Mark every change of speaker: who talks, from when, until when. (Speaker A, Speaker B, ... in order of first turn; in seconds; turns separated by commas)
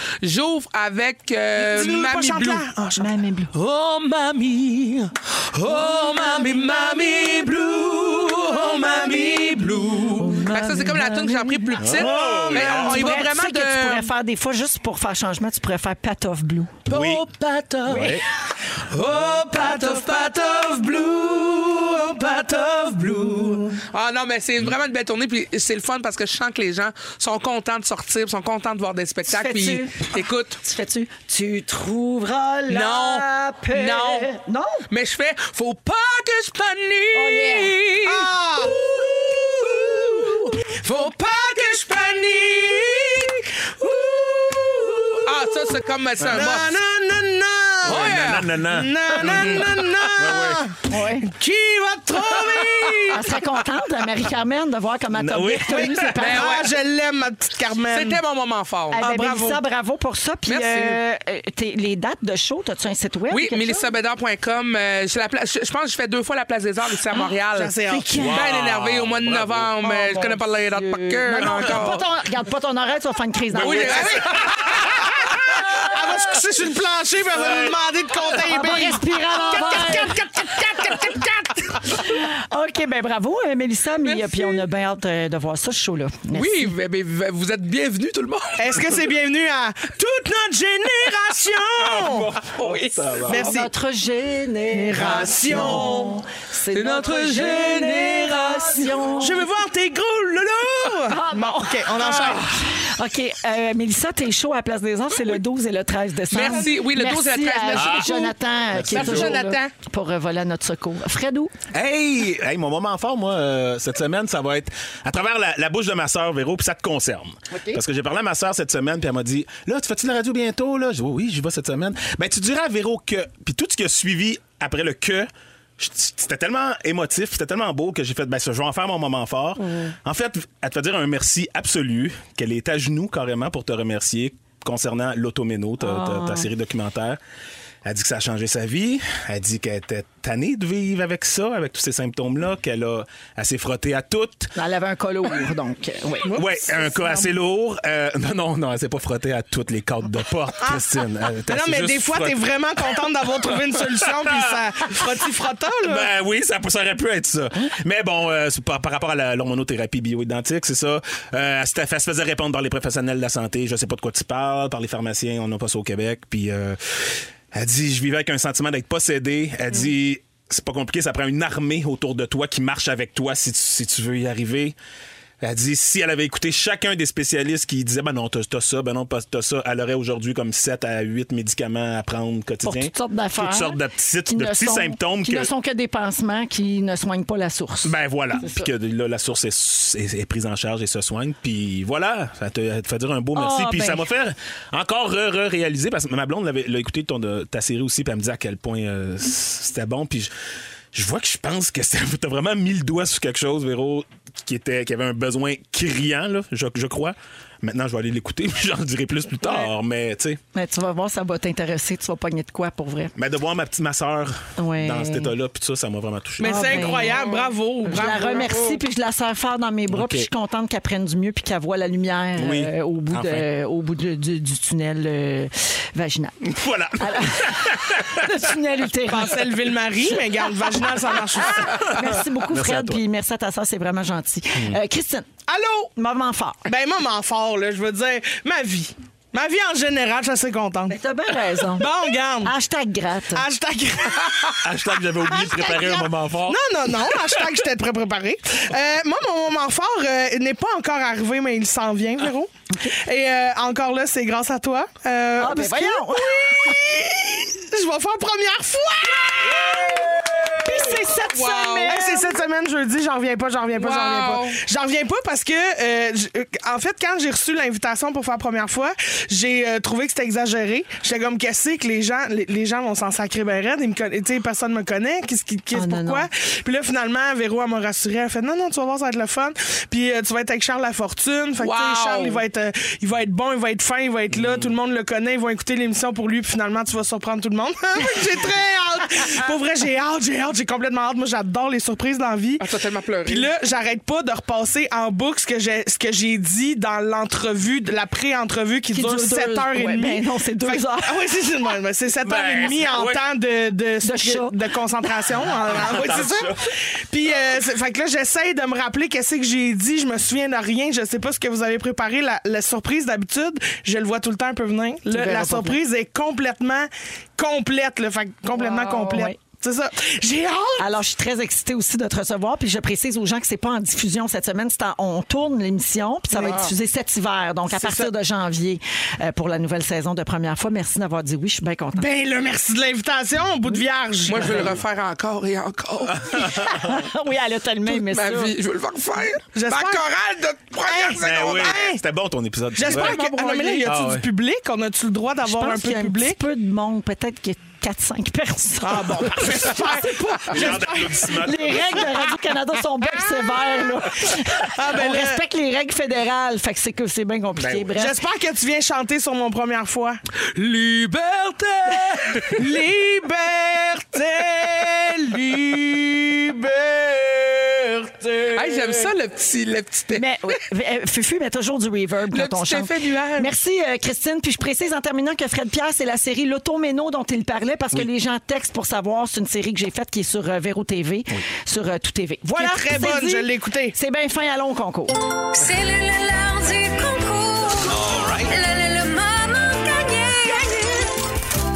Speaker A: 0.2-2.7, Speaker B: 1.6-3.1, Speaker C: 3.0-3.5, Speaker A: 3.5-14.1, Speaker C: 10.2-11.8, Speaker D: 11.8-13.1, Speaker B: 12.0-12.9, Speaker C: 12.7-16.8, Speaker A: 16.9-30.6, Speaker D: 16.9-17.2, Speaker D: 17.8-18.2, Speaker C: 29.3-34.9, Speaker A: 32.7-34.3, Speaker A: 34.9-38.3, Speaker C: 37.1-37.8, Speaker B: 38.0-43.2, Speaker A: 39.7-43.4, Speaker B: 43.8-53.3, Speaker A: 45.2-46.7, Speaker D: 46.2-46.5, Speaker A: 47.8-48.5, Speaker D: 47.8-50.6, Speaker C: 50.9-51.3, Speaker C: 53.1-56.6, Speaker D: 55.1-56.2, Speaker B: 55.7-58.2, Speaker A: 56.2-56.7, Speaker A: 57.9-59.3, Speaker C: 58.9-63.9, Speaker B: 58.9-59.6, Speaker A: 60.5-61.0, Speaker A: 63.3-72.0, Speaker B: 67.5-68.1, Speaker C: 67.9-68.5, Speaker D: 68.1-69.7, Speaker C: 69.8-74.2, Speaker A: 73.5-74.9, Speaker D: 73.5-75.0, Speaker B: 75.5-81.7, Speaker D: 77.4-77.7, Speaker C: 78.5-80.2, Speaker C: 81.9-86.7, Speaker A: 84.0-84.6, Speaker A: 86.3-88.9, Speaker B: 88.6-92.3, Speaker D: 91.8-93.5, Speaker A: 92.5-93.1, Speaker B: 93.2-93.7, Speaker C: 93.3-99.4, Speaker B: 94.7-96.2, Speaker A: 96.7-99.1, Speaker B: 99.2-102.4, Speaker C: 101.1-111.5, Speaker A: 106.3-108.2, Speaker D: 107.7-109.4, Speaker B: 108.9-109.7, Speaker D: 111.7-137.2, Speaker C: 135.8-136.5, Speaker D: 137.8-144.5, Speaker C: 144.6-146.4, Speaker B: 146.2-147.2, Speaker D: 146.3-152.5, Speaker B: 151.5-156.1, Speaker D: 154.0-155.0, Speaker D: 155.8-174.8, Speaker D: 175.4-185.5, Speaker C: 182.6-188.7, Speaker D: 187.8-200.3, Speaker C: 193.3-194.1, Speaker D: 200.9-210.4, Speaker C: 210.5-213.1, Speaker D: 213.2-217.2, Speaker C: 214.6-215.3, Speaker B: 216.4-218.8, Speaker C: 216.4-217.2, Speaker C: 217.8-229.5, Speaker A: 218.0-218.5, Speaker D: 219.9-220.3, Speaker D: 222.4-223.5, Speaker D: 226.4-228.5, Speaker B: 229.1-231.8, Speaker C: 231.3-235.3, Speaker D: 231.7-233.0, Speaker B: 235.5-235.9, Speaker C: 235.9-236.6, Speaker B: 236.7-241.0, Speaker C: 240.9-241.9, Speaker B: 241.8-242.5, Speaker C: 242.4-243.4, Speaker B: 243.3-244.6, Speaker D: 244.6-247.5, Speaker B: 245.2-260.9, Speaker C: 255.4-256.6, Speaker C: 260.5-262.4, Speaker A: 261.3-262.0, Speaker B: 261.9-292.6, Speaker A: 263.7-264.6, Speaker C: 275.7-276.3, Speaker A: 281.6-282.4, Speaker D: 284.3-284.7, Speaker A: 292.6-293.5, Speaker B: 293.2-320.9, Speaker C: 298.9-301.2, Speaker D: 302.2-303.2, Speaker C: 304.0-304.5, Speaker D: 305.4-306.7, Speaker C: 315.1-315.8, Speaker C: 318.5-319.4, Speaker C: 320.8-332.1, Speaker B: 326.3-326.7, Speaker B: 327.7-328.1, Speaker B: 331.9-334.8, Speaker A: 334.2-336.5, Speaker D: 336.1-337.0, Speaker C: 336.3-338.5, Speaker A: 337.8-341.9, Speaker B: 339.5-340.0, Speaker B: 340.8-342.0, Speaker D: 341.2-343.2, Speaker B: 342.7-346.4, Speaker A: 342.8-343.9, Speaker D: 343.8-344.2, Speaker C: 345.4-358.2, Speaker B: 348.8-351.3, Speaker D: 350.5-352.2, Speaker B: 354.6-355.4, Speaker D: 357.6-357.9, Speaker B: 357.9-360.2, Speaker A: 360.5-362.6, Speaker B: 362.5-369.1, Speaker A: 368.5-370.2, Speaker C: 370.1-385.2, Speaker A: 372.3-373.5, Speaker B: 382.5-383.9, Speaker E: 385.6-387.9, Speaker E: 388.5-391.0